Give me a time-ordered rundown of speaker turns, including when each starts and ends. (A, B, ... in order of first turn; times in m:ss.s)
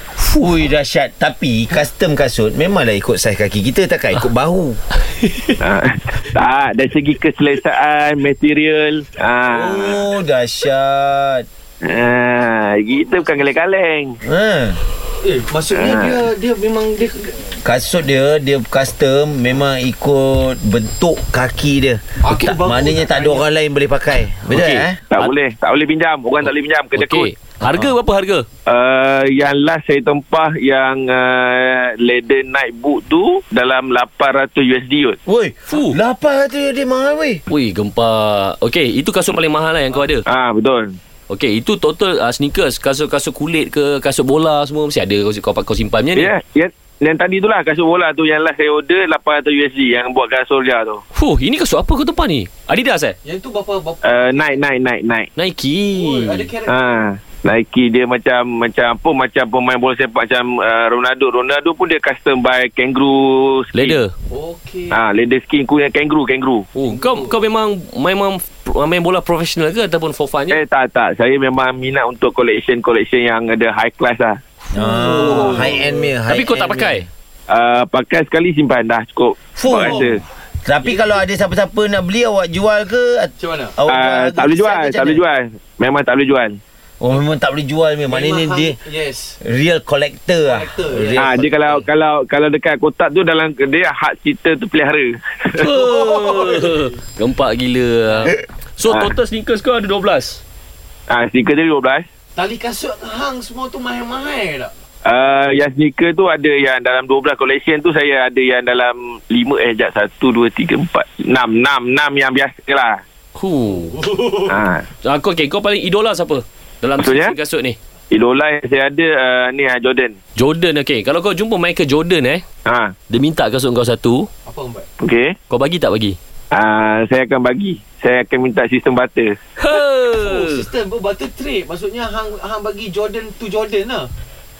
0:00.2-0:00.5 A
0:00.3-0:04.8 B
0:05.2-0:05.5 A
0:05.6-0:10.0 C
0:09.5-0:11.5 B
0:11.8-0:14.2 C
0:14.2-0:14.8 B
0:15.2-0:17.5 D
0:15.7-0:16.2 C
0:17.5-0:25.0 B
0:22.2-0:23.4 D
0:24.5-0:25.3 A
0:25.1-0:27.3 C
0:26.4-0:28.5 A
0:28.7-0:35.2 C
0:35.3-0:37.4 B
0:35.7-0:36.0 A
0:37.5-0:40.3 A
0:40.2-0:41.0 C
0:41.3-0:46.3 A
0:46.2-0:51.0 C
0:51.2-0:53.2 A
0:53.2-0:54.6 D
0:54.0-0:55.3 C
0:55.4-0:56.5 A
0:55.9-0:57.0 D
0:56.7-1:04.0 C
1:03.7-1:04.1 A
1:04.3-1:05.0 D
1:04.9-1:06.7 C
1:06.8-1:10.6 A
1:06.9-1:07.4 D
1:10.5-1:14.4 C
1:14.7-1:15.6 A
1:14.7-1:17.1 B
1:14.8-1:16.1 D
1:16.3-1:17.1 A
1:17.5-1:20.2 C
1:19.6-1:25.2 B
1:19.7-1:20.1 D
1:20.8-1:21.2 D
1:23.4-1:23.8 D
1:23.9-1:26.6 C
1:27.0-1:28.8 B
1:28.1-1:29.4 D
1:29.4-1:31.5 B
1:30.4-1:31.4 D
1:31.2-1:35.7 C
1:35.5-1:40.4 A
1:35.8-1:36.8 D
1:38.9-1:39.1 C
1:41.1-1:42.0 C
1:42.4-1:44.7 D
1:45.0-1:53.0 C
1:53.4-1:54.1 A
1:53.8-1:54.5 D
1:54.4-1:54.9 C
1:55.0-1:57.8 A
1:57.0-1:57.4 C
1:58.1-2:00.2 C
2:00.4-2:02.4 A
2:02.7-2:03.0 C
2:03.1-2:04.3 A
2:04.5-2:04.9 D
2:05.0-2:05.4 C
2:05.5-2:06.2 A
2:06.5-2:09.4 C
2:09.6-2:10.7 A
2:09.7-2:14.1 D